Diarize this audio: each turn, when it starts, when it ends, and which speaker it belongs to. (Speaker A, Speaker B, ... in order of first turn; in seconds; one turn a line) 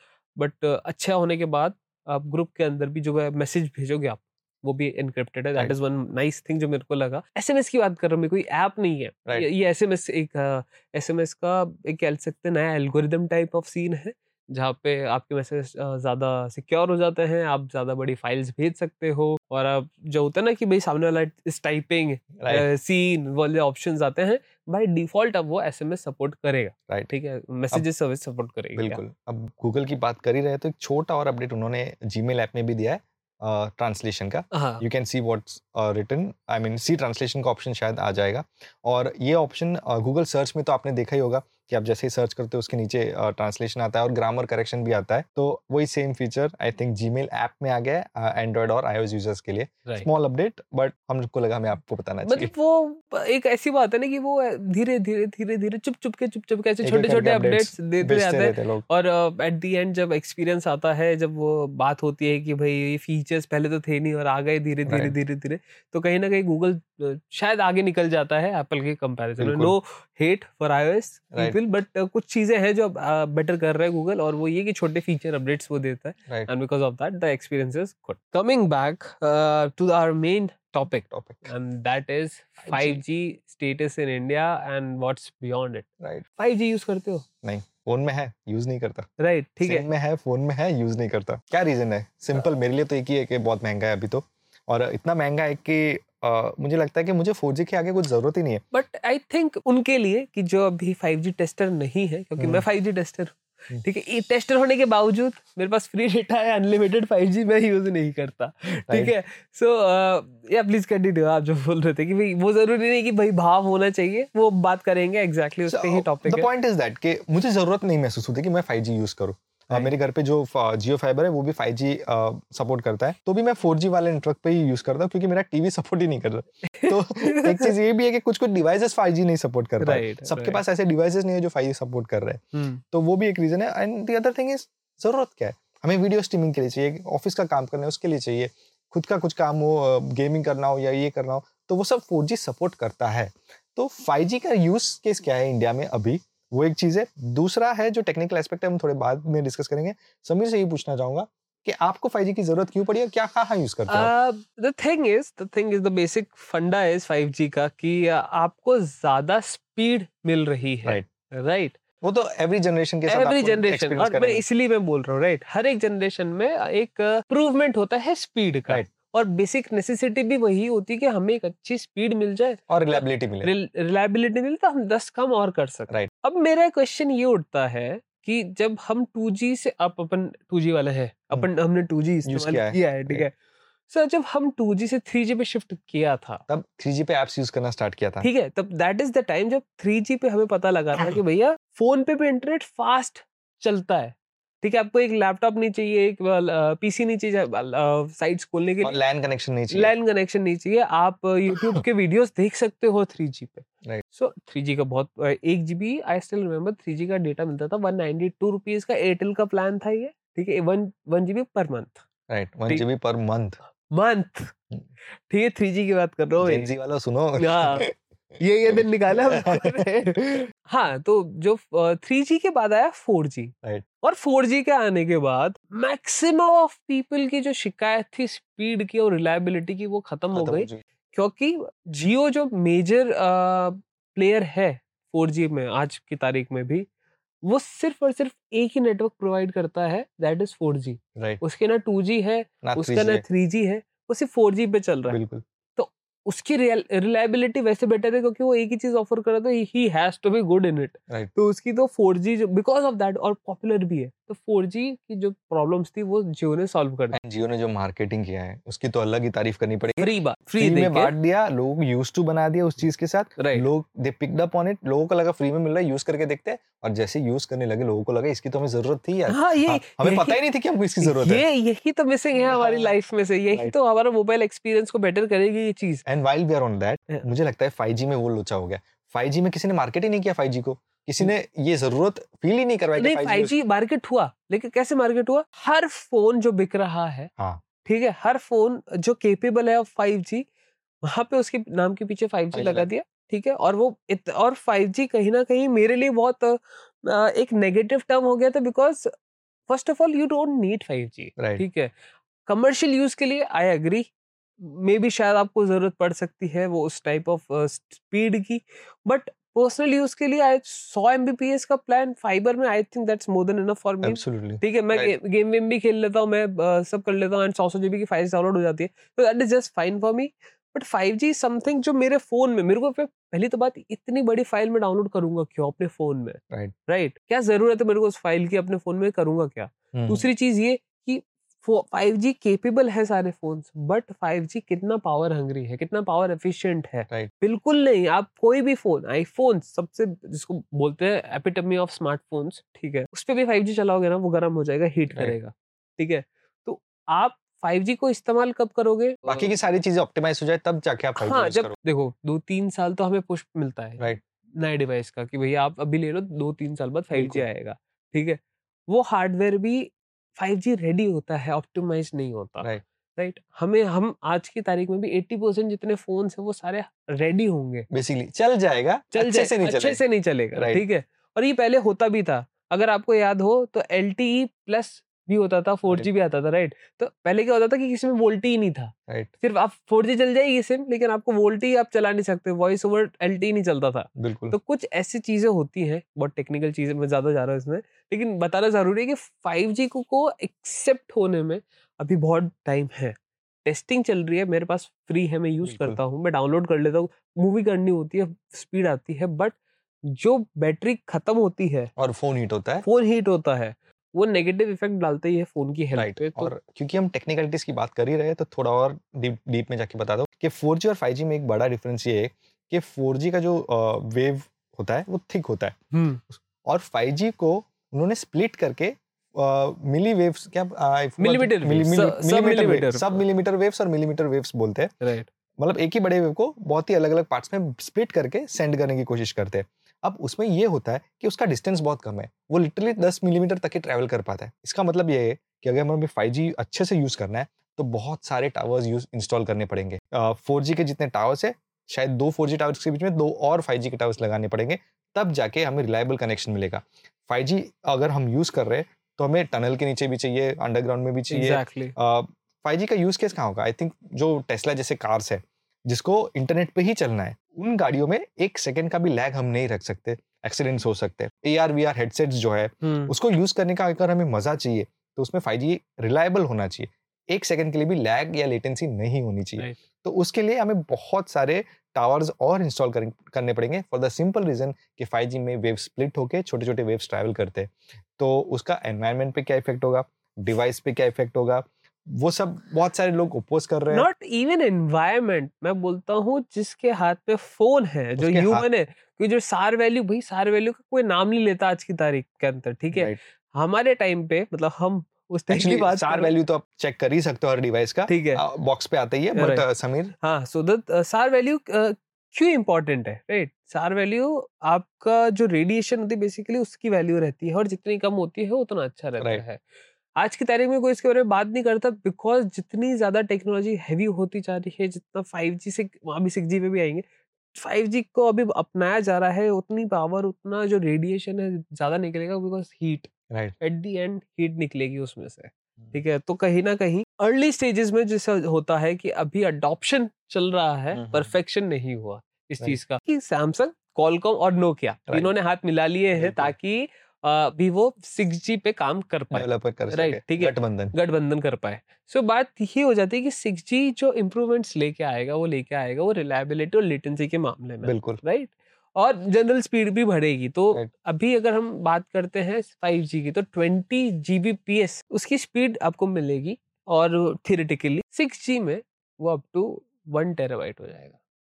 Speaker A: 0.4-29.0
Speaker B: 22.4-22.7
Speaker B: 28.8-52.5
Speaker A: 34.5-34.8
Speaker A: 52.3-87.2
Speaker B: 56.8-58.9
Speaker B: 64.9-65.2
Speaker B: 69.4-69.8
Speaker B: 71.3-71.6
Speaker B: 81.0-81.5
Speaker B: 82.6-83.0
Speaker B: 86.0-86.2
Speaker B: 87.4-89.1
Speaker A: 89.2-89.9
Speaker B: 89.6-98.6
Speaker A: 98.7-116.5
Speaker B: 102.4-102.7
Speaker B: 108.7-109.2
Speaker B: 115.7-154.1
Speaker A: 126.8-127.7
Speaker A: 129.8-130.6
Speaker A: 132.5-132.8
Speaker A: 153.9-161.8
Speaker B: 162.0-164.4
Speaker A: 163.1-183.3
Speaker B: 172.7-173.5
Speaker B: 182.2-183.3
Speaker A: 183.9-186.4
Speaker B: 186.5-188.3
Speaker A: 188.2-199.0
Speaker B: 198.8-199.9
Speaker A: 199.7-212.0
Speaker B: 212.3-213.6
Speaker A: 213.9-214.6
Speaker A: 215.3-216.7
Speaker B: 216.4-217.9
Speaker A: 217.4-217.9
Speaker A: 218.4-236.9
Speaker B: 218.7-219.8
Speaker B: 230.3-230.8
Speaker A: 237.4-245.2
Speaker B: 241.2-241.4
Speaker B: 242.6-243.2
Speaker B: 245.1-245.4
Speaker A: 245.8-257.2
Speaker B: 257.2-271.4
Speaker A: 259.9-261.1
Speaker A: 263.4-263.7
Speaker A: 269.3-270.4
Speaker A: 271.0-276.1
Speaker B: 272.4-273.0
Speaker B: 276.1-283.6
Speaker A: 283.0-287.3
Speaker B: 287.4-287.6
Speaker A: 287.8-290.4
Speaker A: 291.0-299.1
Speaker B: 292.5-292.9
Speaker A: 299.7-301.9
Speaker B: 301.4-301.6
Speaker A: 302.4-349.5
Speaker B: 314.0-315.1
Speaker B: 329.9-330.3
Speaker B: 349.3-351.8
Speaker A: 351.2-354.1
Speaker A: 354.6-367.9
Speaker B: 357.1-357.4
Speaker B: 367.9-370.0
Speaker A: 369.1-399.6
Speaker B: 370.6-370.8
Speaker B: 384.2-384.6
Speaker B: 395.6-396.0
Speaker A: 400.1-401.9
Speaker B: 402.0-402.9
Speaker A: 402.9-406.5
Speaker B: 405.9-415.8
Speaker A: 415.9-416.2
Speaker B: 416.3-424.9
Speaker A: 421.2-423.2
Speaker A: 425.0-425.3
Speaker B: 425.6-484.1
Speaker A: 451.3-451.9
Speaker A: 462.8-463.1
Speaker A: 483.9-496.3
Speaker B: 488.2-488.7
Speaker B: 492.9-493.2
Speaker B: 495.5-500.1
Speaker A: 498.1-498.4
Speaker A: 499.4-499.6
Speaker A: 500.2-509.6
Speaker A: 510.2-561.2
Speaker B: 523.3-523.6
Speaker B: 530.9-531.4
Speaker B: 535.1-535.3
Speaker B: 536.1-536.5
Speaker B: 539.3-541.0
Speaker B: 547.8-548.2